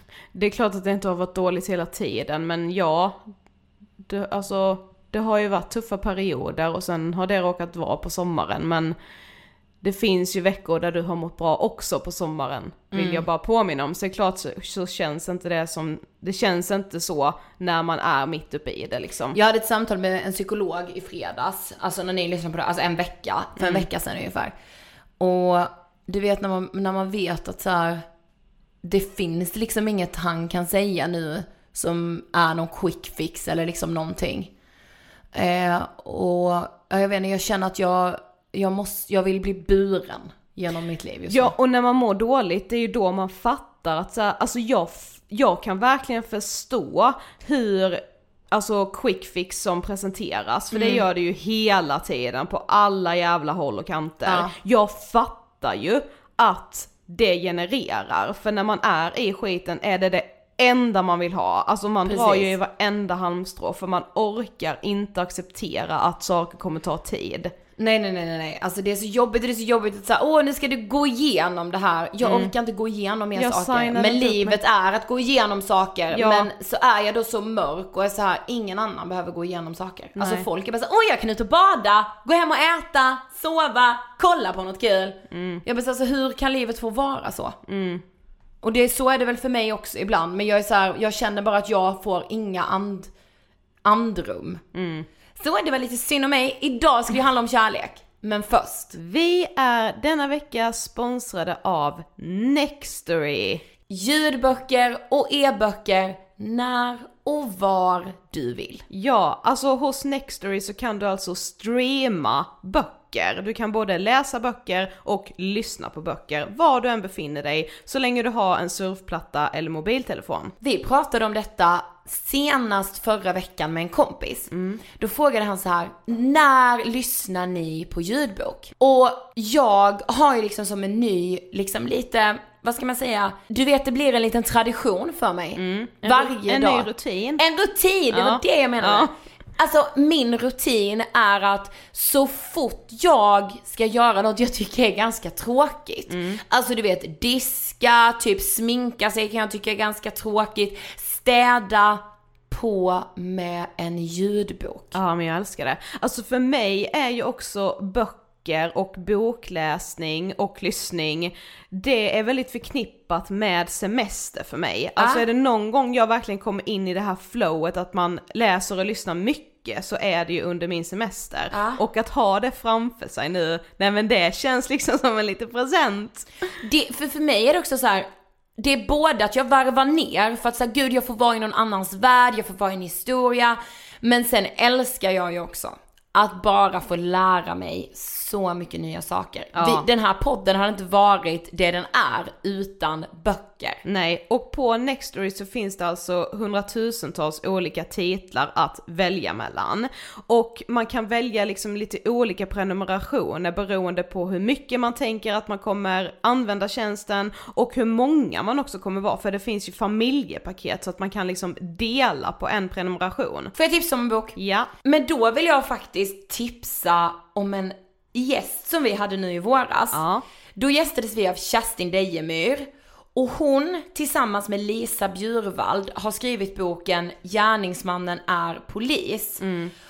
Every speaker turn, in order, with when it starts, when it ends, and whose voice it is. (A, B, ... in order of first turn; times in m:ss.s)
0:00.3-0:03.3 A
0:04.0-0:09.0 A
0:09.8-0:19.4 A
0:12.9-0:13.3 B
0:19.3-0:24.6 B
0:23.6-0:23.9 A
0:25.2-0:28.0 B
0:28.8-0:34.5 B
0:35.3-0:41.5 B
0:41.3-1:07.5 A
0:50.7-0:51.0 B
0:54.2-0:54.5 B
1:02.0-1:02.5 B
1:07.8-1:27.6 B
1:12.2-1:12.5 A
1:13.3-1:14.6 A
1:16.1-1:16.5 A
1:20.2-1:20.5 A
1:25.3-1:25.6 A
1:27.7-1:28.0 A
1:28.6-1:33.1 B
1:33.8-1:34.6 B
1:34.8-1:35.1 A
1:35.4-1:38.9 B
1:38.9-1:43.6 A
1:43.9-1:48.8 B
1:48.9-2:00.5 A
2:00.6-2:34.9 B
2:04.5-2:04.8 A
2:15.6-2:17.4 A
2:18.1-2:19.1 A
2:26.1-2:26.4 A
2:34.9-2:56.2 A
2:45.0-2:45.2 B
2:51.5-2:51.8 B
2:56.6-3:13.8 B
3:09.5-3:09.9 A
3:13.8-3:33.5 A
3:33.5-3:40.0 B
3:34.4-3:34.7 A
3:39.9-3:40.2 A
3:40.6-3:49.4 B
3:49.4-3:49.7 A